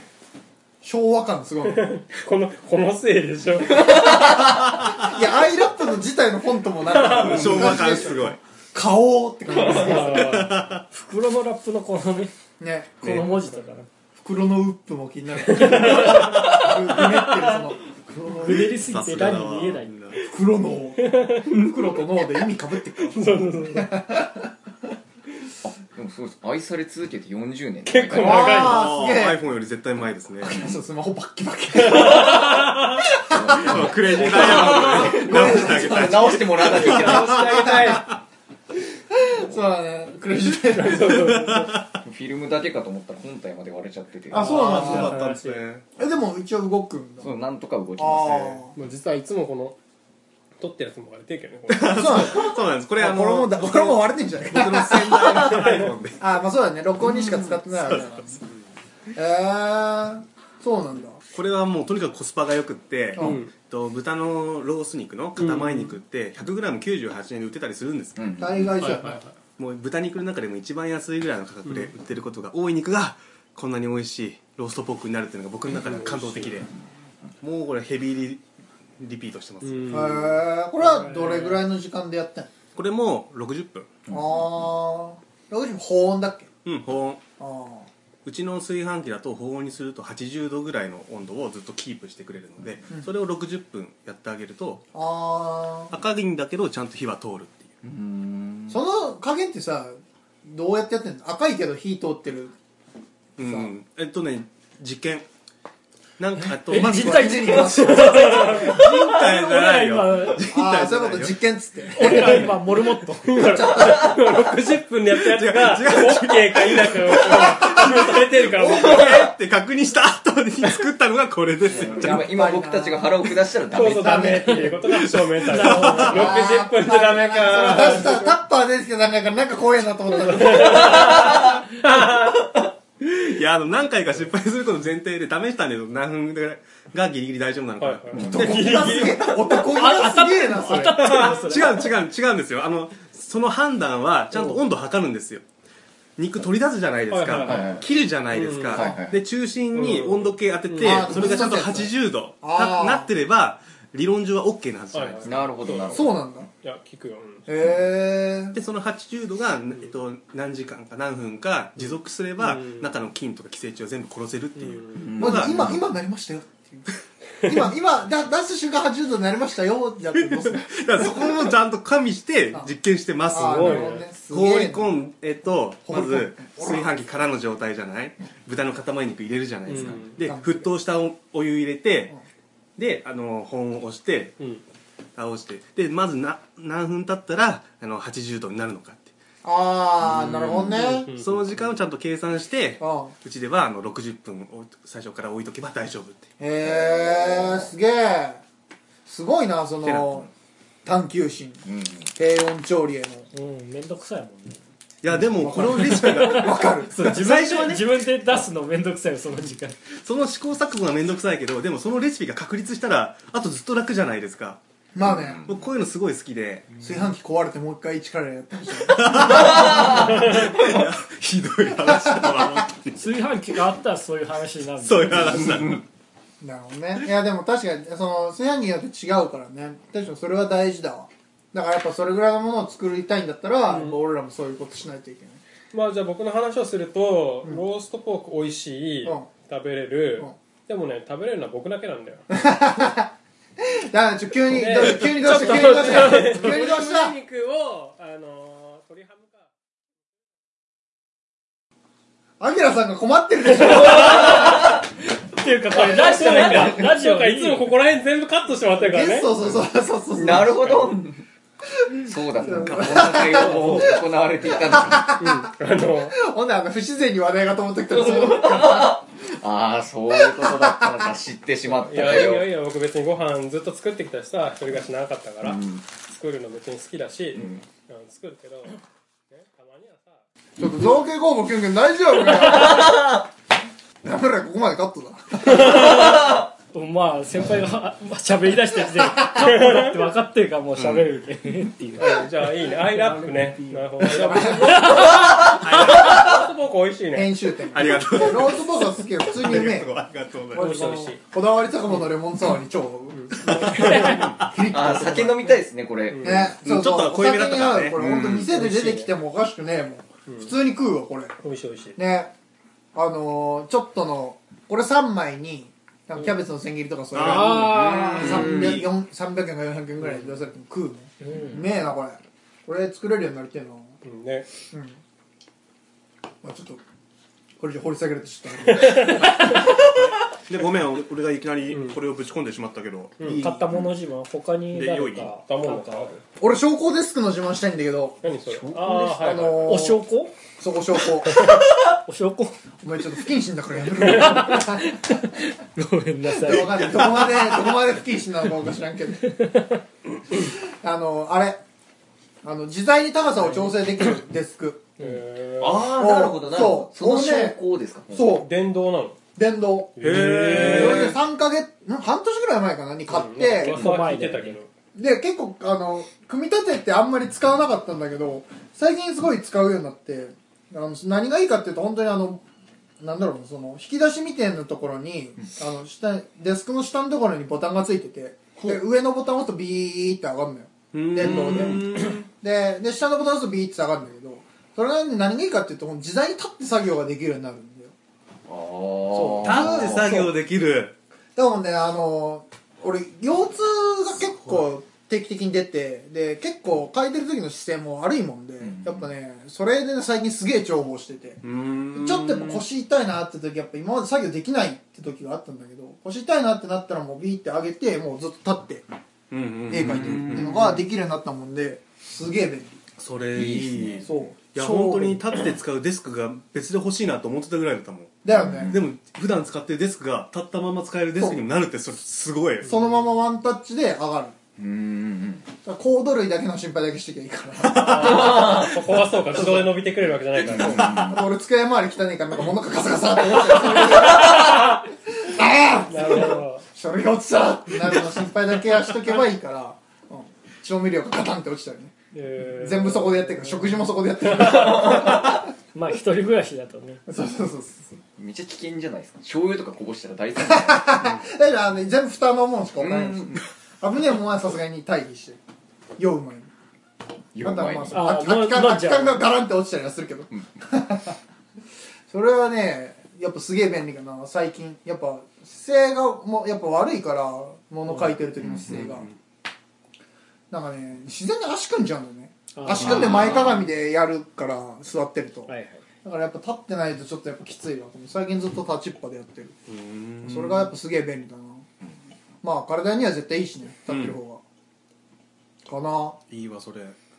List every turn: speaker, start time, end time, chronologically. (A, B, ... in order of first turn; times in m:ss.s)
0:00.8-0:01.9 A
0:01.7-0:04.0 B
0:04.3-0:05.1 C
0:04.8-0:10.5 A
0:06.9-0:07.8 B
0:07.0-0:08.4 C
0:09.5-0:10.5 B
0:09.8-0:10.8 C
0:10.9-0:12.3 D
0:12.6-0:13.4 A
0:13.0-0:13.9 D
0:13.0-0:13.4 C
0:14.2-0:18.5 A
0:18.2-0:19.9 D
0:18.4-0:20.3 C
0:20.2-0:24.5 A
0:23.1-0:23.9 B
0:25.6-0:28.8 E
0:27.8-0:28.9 B
0:28.1-0:29.4 A
0:28.3-0:30.7 C
0:30.5-0:36.0 A
0:31.8-0:32.9 B
0:33.2-0:38.1 E
0:33.4-0:38.0 C
0:36.9-0:37.9 B
0:36.9-0:38.0 A
0:39.1-0:41.5 A
0:40.6-0:41.8 B
0:41.1-0:42.0 C
0:42.0-0:44.7 E
0:44.3-0:45.2 A
0:44.3-0:45.6 B
0:44.3-0:45.8 C
0:44.7-0:45.1 D
0:46.0-0:47.4 A
0:47.2-0:48.6 E
0:48.0-0:48.7 A
0:48.8-0:49.8 B
0:50.6-0:52.2 B
0:51.7-0:56.3 C
0:51.9-0:58.4 A
0:55.4-0:55.9 B
0:57.3-0:58.4 C
0:59.1-1:01.2 A
1:01.3-1:08.3 C
1:03.2-1:03.4 A
1:03.2-1:03.5 B
1:05.4-1:05.9 B
1:08.2-1:08.7 E
1:08.4-1:09.2 A
1:08.8-1:09.3 B
1:09.6-1:16.7 C
1:11.6-1:11.9 B
1:15.8-1:16.6 B
1:17.4-1:18.4 C
1:19.0-1:20.2 C
1:19.6-1:20.4 B
1:19.9-1:22.5 A
1:20.8-1:21.6 D
1:22.7-1:23.9 C
1:24.1-1:24.7 E
1:24.1-1:26.5 A
1:26.6-1:27.2 C
1:27.4-1:27.9 A
1:28.2-1:34.8 C
1:34.9-1:35.9 A
1:35.9-1:37.7 C
1:37.8-1:38.8 E
1:38.7-1:42.5 A
1:43.4-1:45.2 C
1:43.4-1:43.7 A
1:46.2-1:51.4 C
1:46.6-1:50.5 D
1:46.7-1:48.8 A
1:48.1-1:48.4 B
1:50.5-1:52.6 A
1:51.9-1:53.7 D
1:52.0-1:52.5 B
1:53.2-1:59.3 B
1:53.7-1:54.2 E
1:55.1-2:02.3 C
2:01.7-2:04.7 E
2:02.0-2:03.2 A
2:03.7-2:08.3 B
2:04.7-2:06.3 C
2:05.5-2:06.6 D
2:05.8-2:11.2 A
2:10.2-2:12.5 B
2:10.9-2:11.6 E
2:13.0-2:19.2 C
2:17.8-2:19.5 B
2:18.1-2:18.7 E
2:18.2-2:21.3 A
2:19.6-2:21.9 D
2:20.9-2:21.6 B
2:21.2-2:25.4 C
2:26.2-2:35.7 C
2:27.1-2:29.0 B
2:27.4-2:27.9 E
2:28.7-2:29.2 E
2:29.7-2:31.1 B
2:30.8-2:33.1 A
2:34.9-2:37.5 B
2:35.2-2:36.2 E
2:35.9-2:36.5 A
2:37.5-2:38.6 A
2:38.5-2:45.8 C
2:41.8-2:43.0 B
2:44.6-2:45.1 B
2:45.0-2:45.8 E
2:45.2-2:46.9 A
2:47.4-2:51.5 A
2:50.4-3:02.1 C
2:53.3-2:54.9 A
2:53.3-2:54.0 B
2:55.9-2:56.9 A
2:59.6-3:00.1 B
3:00.2-3:00.7 A
3:02.8-3:04.4 C
3:05.2-3:09.1 C
3:09.4-3:11.1 A
3:10.0-3:10.8 E
3:10.3-3:16.3 C
3:10.7-3:11.4 B
3:12.8-3:13.1 A
3:16.4-3:18.4 A
3:16.6-3:17.7 E
3:19.0-3:20.3 A
3:19.8-3:20.2 C
3:20.8-3:23.3 A
3:21.6-3:22.1 E
3:23.3-3:24.6 D
3:25.0-3:27.9 C
3:25.4-3:27.2 A
3:26.0-3:29.8 D
3:29.9-3:34.6 C
3:34.9-3:35.4 A
3:35.0-3:35.6 E
3:35.4-3:36.8 C
3:36.8-3:39.8 A
3:38.8-3:43.1 C
3:39.2-3:40.8 E
3:42.0-3:42.6 A
3:42.9-3:45.6 D
3:44.8-3:45.8 C
3:46.4-3:55.4 A
3:53.7-3:54.0 B
3:55.7-4:02.3 B
4:02.3-4:07.2 A
4:04.5-4:09.5 B
4:12.4-4:14.6 A
4:13.7-4:14.7 B
4:14.0-4:14.8 D
4:15.4-4:19.3 B
4:15.4-4:17.7 D
4:16.2-4:16.8 E
4:18.8-4:20.9 A
4:20.1-4:21.2 E
4:21.9-4:24.0 A
4:22.0-4:25.1 E
4:22.6-4:22.9 C
4:23.1-4:23.9 B
4:24.9-4:25.3 A
4:25.2-4:26.2 B
4:26.1-4:29.0 A
4:27.9-4:32.5 E
4:30.3-4:30.8 A
4:31.7-4:40.2 B
4:35.4-4:35.8 E
4:37.3-4:37.6 E
4:40.6-4:43.2 A
4:42.7-4:43.1 E
4:44.0-4:46.2 A
4:45.6-4:52.3 D
4:49.3-4:50.0 B
4:50.8-4:51.1 C
4:52.0-4:57.3 B
4:52.1-4:55.2 A
4:54.0-4:56.2 D
4:55.4-4:56.5 C
4:57.1-4:59.9 A
4:57.7-5:00.8 C
5:00.5-5:01.2 B
5:00.6-5:01.2 D
5:01.1-5:05.5 A
5:03.1-5:04.2 B
5:03.4-5:04.5 C
5:04.6-5:06.6 E
5:06.1-5:06.5 B
5:06.2-5:11.3 A
5:06.6-5:08.5 C
5:08.0-5:08.4 E
5:08.5-5:09.0 B
5:10.3-5:10.5 B
5:11.4-5:12.0 B
5:12.0-5:12.3 A
5:12.9-5:24.0 A
5:17.1-5:18.9 C
5:17.2-5:18.6 D
5:18.3-5:18.7 E
5:20.0-5:20.4 B
5:21.2-5:21.7 D
5:24.0-5:24.5 B
5:24.7-5:25.0 A
5:26.4-5:26.8 A
5:27.6-5:29.9 A
5:28.8-5:29.4 B
5:30.5-5:33.4 C
5:31.7-5:32.0 B
5:33.2-5:33.7 A
5:33.3-5:36.1 D
5:34.7-5:35.3 C
5:35.4-5:36.2 B
5:36.4-5:38.2 A
5:38.2-5:39.8 B
5:38.7-5:40.4 D
5:39.2-5:40.0 A
5:40.6-5:41.5 A
5:41.3-5:42.5 D
5:42.8-5:45.0 A
5:44.0-5:47.1 D
5:46.3-5:49.3 A
5:49.2-5:49.8 D
5:50.4-5:51.6 A
5:52.4-5:54.8 A
5:55.0-5:55.9 B
5:55.6-5:58.4 E
5:56.0-5:57.6 A
5:58.1-5:58.5 A
5:58.3-5:59.2 B
5:59.4-5:59.9 A
6:00.0-6:01.2 B
6:00.0-6:01.2 C
6:00.5-6:03.8 A
6:03.1-6:04.7 B
6:03.5-6:04.6 D
6:04.9-6:12.4 A
6:13.0-6:27.9 A
6:18.6-6:18.8 E
6:20.9-6:22.3 C
6:21.2-6:21.8 E
6:28.5-6:30.2 E
6:29.1-6:30.3 A
6:29.4-6:30.9 C
6:31.4-6:48.8 A
6:38.6-6:39.1 E
6:41.4-6:42.6 C
6:49.3-6:50.8 C
6:49.7-6:52.8 A
6:53.0-7:02.9 C
6:53.3-6:54.1 E
6:54.0-6:55.2 A
6:58.2-6:58.7 A
6:58.3-6:58.9 E
7:01.2-7:01.4 A
7:02.6-7:04.4 A
7:04.6-7:05.5 E
7:05.6-7:08.7 A
7:07.7-7:10.9 B
7:08.1-7:08.6 E
7:09.3-7:09.8 A
7:10.4-7:11.3 E
7:10.4-7:21.9 A
7:15.9-7:16.6 B
7:22.1-7:23.8 B
7:22.6-7:25.4 A
7:24.4-7:24.9 B
7:24.7-7:27.0 D
7:27.1-7:28.0 A
7:28.2-7:31.0 E
7:30.4-7:35.4 A
7:32.8-7:33.4 E
7:36.0-7:36.5 A
7:37.3-7:38.1 E
7:37.4-7:41.2 A
7:37.9-7:39.2 D
7:42.1-7:49.1 A
7:48.4-7:49.1 E
7:48.7-7:49.1 C
7:50.5-7:59.6 A
7:52.6-7:53.3 D
7:52.8-7:53.6 E
7:55.5-7:55.8 D
7:59.7-8:00.7 C
8:00.2-8:01.6 A
8:02.4-8:04.4 A
8:03.9-8:04.2 C
8:05.6-8:06.2 A
8:06.3-8:07.0 C